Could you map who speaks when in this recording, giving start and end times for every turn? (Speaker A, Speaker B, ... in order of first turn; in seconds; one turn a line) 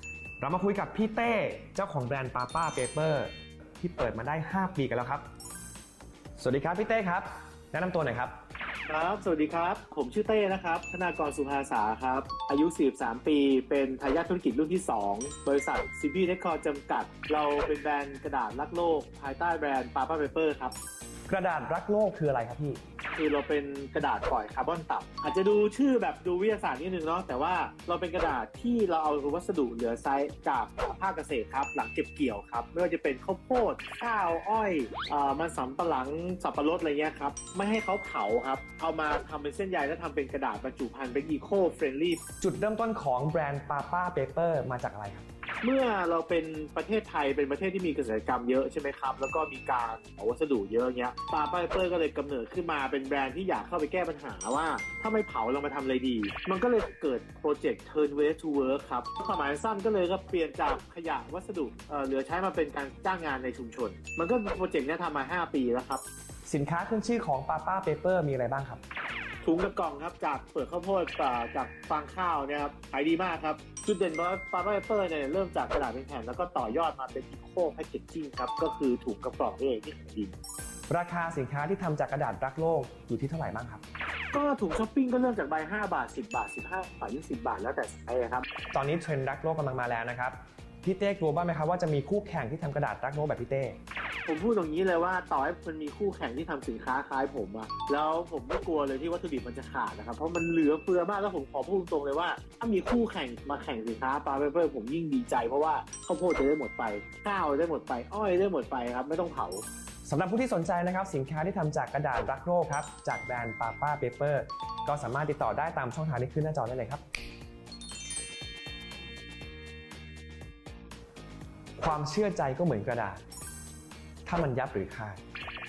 Speaker A: 0.4-5.2
Speaker A: 6.3-8.3
Speaker B: 8.9-20.7
Speaker A: 21.3-22.8
Speaker B: 23.1-42.2
Speaker A: 42.4-45.2
Speaker B: 45.6-66.0
Speaker A: 66.5-68.8
Speaker B: 69.4-80.3
Speaker A: 80.9-83.8
Speaker B: 84.3-88.5
Speaker A: 88.7-93.8
Speaker B: 94.2-109.6
Speaker A: 110.0-117.0
Speaker A: 121.8-123.2
Speaker A: 124.2-125.2